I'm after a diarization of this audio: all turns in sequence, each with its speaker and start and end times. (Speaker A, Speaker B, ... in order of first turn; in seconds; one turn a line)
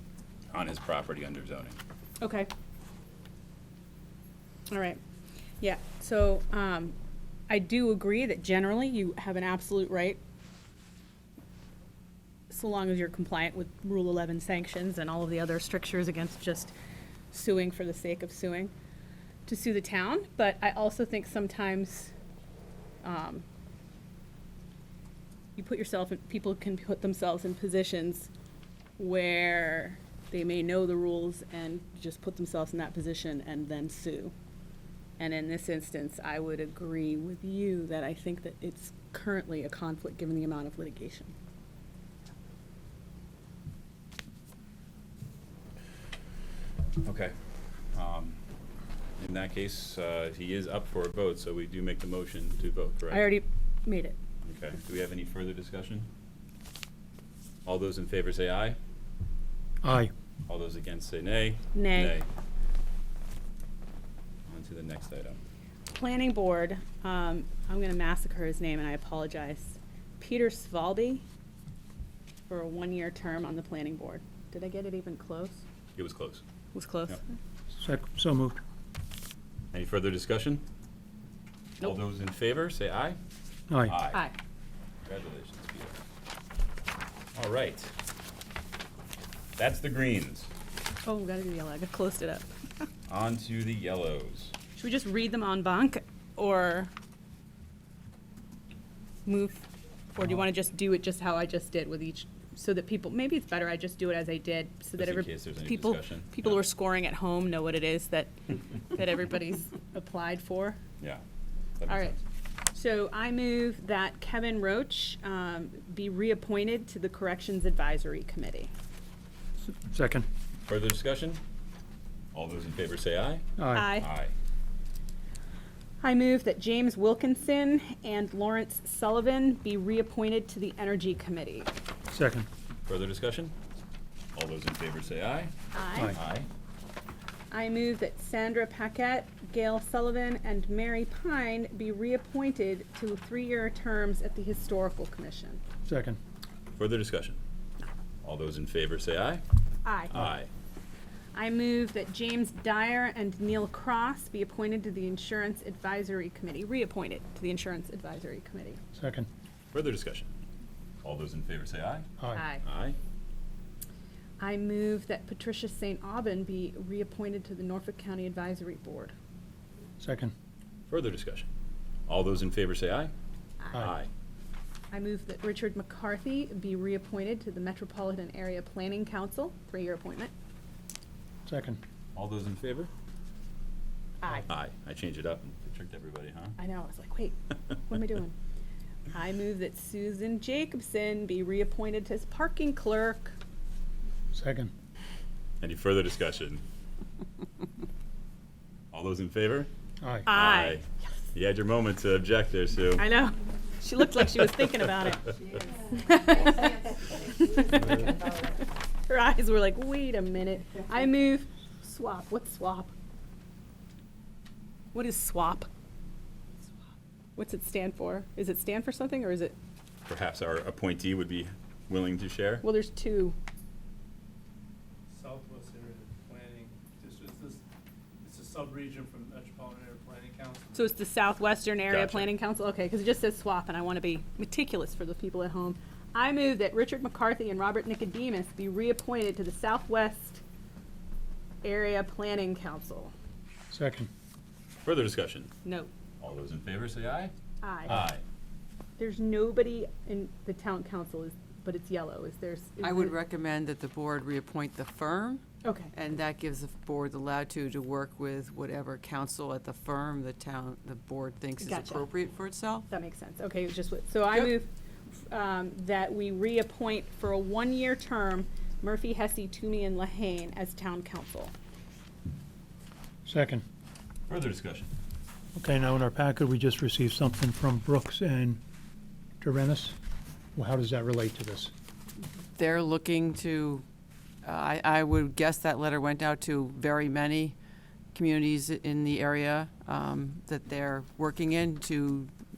Speaker A: 0.5-1.8
Speaker B: 2.2-2.5
Speaker B: 4.7-5.0
Speaker B: 5.6-6.9
Speaker B: 7.5-10.2
Speaker B: 12.5-16.7
Speaker B: 17.3-18.7
Speaker B: 19.5-22.1
Speaker B: 23.0-23.4
Speaker B: 25.6-28.3
Speaker B: 29.0-34.3
Speaker B: 35.2-41.3
Speaker A: 47.0-47.3
Speaker A: 47.9-48.4
Speaker A: 49.2-53.3
Speaker B: 53.1-54.1
Speaker A: 54.4-56.1
Speaker A: 57.6-58.8
Speaker C: 59.8-60.1
Speaker A: 60.5-62.3
Speaker B: 61.7-62.2
Speaker A: 64.5-65.4
Speaker B: 65.9-71.2
Speaker B: 72.5-75.6
Speaker A: 76.0-76.4
Speaker B: 76.7-77.4
Speaker C: 77.7-78.6
Speaker A: 79.7-80.6
Speaker A: 81.8-83.2
Speaker C: 83.7-84.0
Speaker A: 83.8-84.2
Speaker A: 85.0-86.0
Speaker A: 87.3-87.9
Speaker A: 89.6-90.5
Speaker B: 91.0-92.5
Speaker A: 93.1-94.5
Speaker B: 94.8-96.9
Speaker B: 99.2-110.8
Speaker A: 105.0-106.7
Speaker A: 111.8-112.2
Speaker B: 111.9-112.1
Speaker B: 112.7-118.7
Speaker C: 119.7-120.2
Speaker A: 120.7-121.4
Speaker A: 122.3-124.3
Speaker C: 123.6-124.0
Speaker B: 123.7-124.1
Speaker B: 126.0-131.7
Speaker C: 132.1-132.5
Speaker A: 132.9-133.5
Speaker A: 134.3-136.5
Speaker B: 135.7-136.2
Speaker B: 137.5-145.6
Speaker C: 145.8-146.2
Speaker A: 146.7-147.4
Speaker A: 148.2-149.4
Speaker B: 149.8-150.1
Speaker A: 150.1-150.5
Speaker B: 151.3-158.8
Speaker C: 158.9-159.3
Speaker A: 159.7-160.3
Speaker A: 161.0-162.1
Speaker C: 162.2-162.4
Speaker B: 162.3-162.6
Speaker A: 162.6-163.0
Speaker B: 164.4-169.1
Speaker C: 170.0-170.3
Speaker A: 170.9-171.5
Speaker A: 172.1-173.1
Speaker A: 173.7-174.1
Speaker B: 174.9-180.3
Speaker C: 181.4-181.8
Speaker A: 182.1-182.9
Speaker A: 184.3-186.6
Speaker B: 186.6-188.3
Speaker B: 189.1-193.4
Speaker C: 194.3-194.7
Speaker A: 195.6-196.6
Speaker A: 198.9-199.7
Speaker C: 200.0-200.3
Speaker B: 200.2-200.8
Speaker A: 200.3-203.1
Speaker B: 203.0-205.3
Speaker B: 205.9-208.5
Speaker B: 209.1-212.9
Speaker B: 214.9-215.7
Speaker B: 217.4-219.6
Speaker A: 220.1-222.7
Speaker B: 222.6-223.3
Speaker D: 225.1-227.6
Speaker D: 228.2-230.9
Speaker B: 230.7-240.4
Speaker A: 231.9-232.3
Speaker B: 241.6-243.1
Speaker C: 243.7-244.1
Speaker A: 244.8-245.5
Speaker B: 245.6-245.9
Speaker A: 246.2-247.3
Speaker B: 247.6-248.0
Speaker A: 247.8-248.2
Speaker B: 249.0-253.2
Speaker E: 252.8-262.9
Speaker B: 255.6-255.9
Speaker B: 261.6-262.1
Speaker B: 262.9-271.5
Speaker C: 273.2-273.6
Speaker A: 274.3-274.9
Speaker C: 275.6-278.6
Speaker C: 279.4-280.0
Speaker C: 280.5-281.7
Speaker E: 282.6-283.8
Speaker E: 284.4-287.5
Speaker E: 288.1-292.3